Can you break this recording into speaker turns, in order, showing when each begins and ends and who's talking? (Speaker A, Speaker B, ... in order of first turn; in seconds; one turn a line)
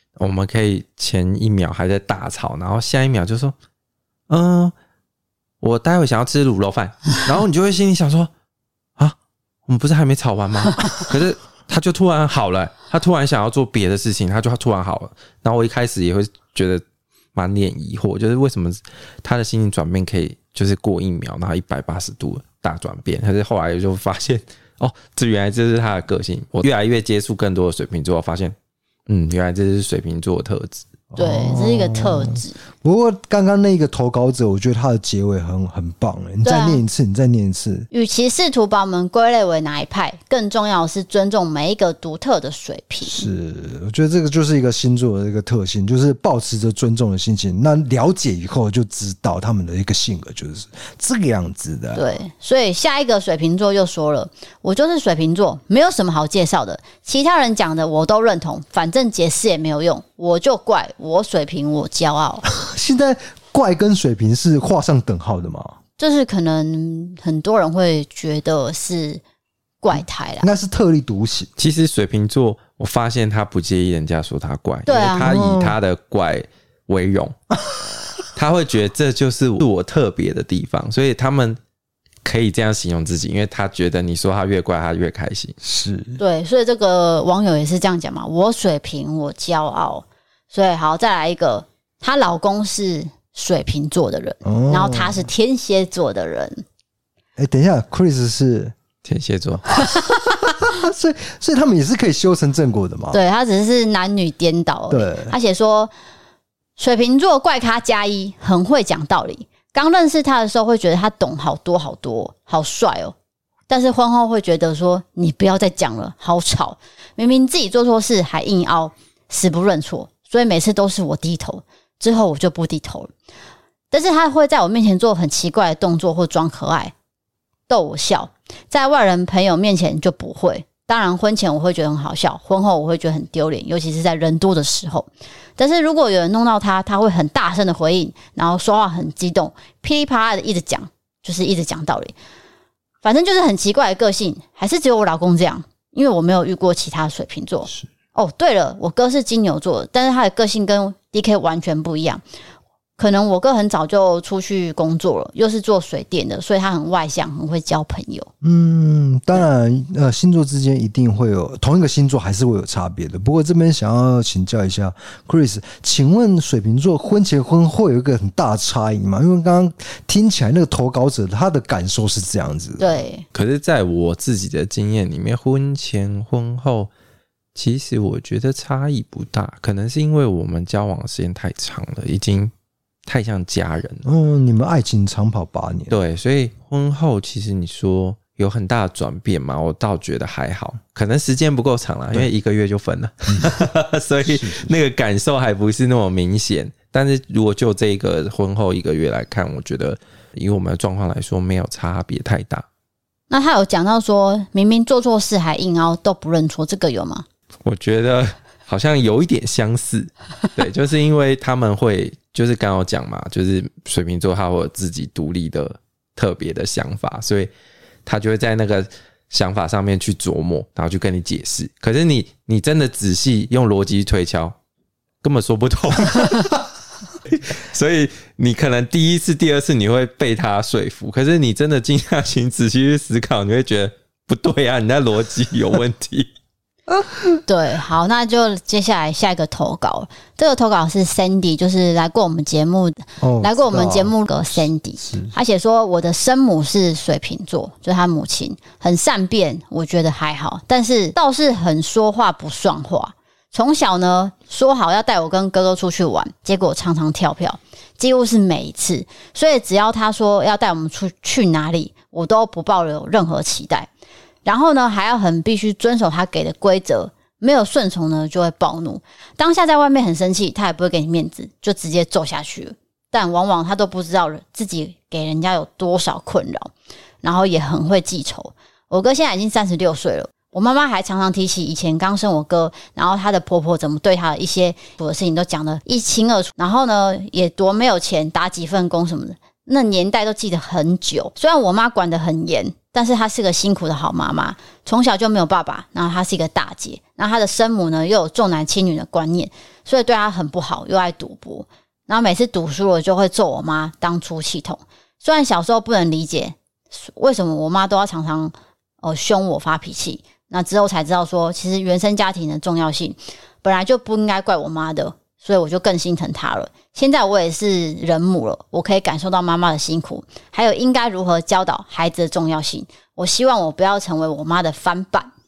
Speaker A: 0.2-3.5
Speaker A: 4.3-4.7
Speaker A: 5.6-8.3
Speaker A: 9.7-16.8
Speaker A: 17.3-28.5
Speaker A: 29.1-30.8
Speaker B: 31.1-37.9
Speaker C: 31.1-32.6
Speaker C: 36.4-36.8
Speaker C: 37.9-43.2
Speaker B: 43.0-52.0
Speaker C: 51.9-62.4
Speaker B: 62.5-65.8
Speaker C: 66.0-69.2
Speaker C: 69.8-70.5
Speaker B: 70.4-71.5
Speaker A: 71.6-77.3
Speaker C: 74.9-75.3
Speaker B: 75.1-75.8
Speaker B: 77.6-78.2
Speaker A: 78.3-81.6
Speaker A: 82.2-85.5
Speaker B: 85.6-86.2
Speaker C: 86.2-96.6
Speaker B: 94.4-95.3
Speaker B: 97.4-98.7
Speaker A: 99.0-99.8
Speaker B: 99.8-103.2
Speaker C: 103.1-105.9
Speaker B: 104.9-105.3
Speaker C: 106.8-113.1
Speaker C: 113.7-123.1
Speaker C: 123.9-126.9
Speaker C: 127.7-142.1
Speaker C: 143.0-152.2
Speaker C: 153.0-158.3
Speaker B: 158.4-172.9
Speaker C: 172.8-173.2
Speaker A: 173.3-176.9
Speaker A: 177.5-182.5
Speaker A: 183.1-184.0
Speaker B: 184.0-185.9
Speaker A: 185.9-202.6
Speaker B: 194.2-194.7
Speaker C: 203.3-207.2
Speaker A: 207.6-217.5
Speaker A: 218.1-224.5
Speaker A: 225.2-226.6
Speaker A: 227.2-236.3
Speaker C: 237.5-263.9
Speaker B: 243.2-245.3
Speaker C: 264.4-276.7
Speaker C: 277.2-325.3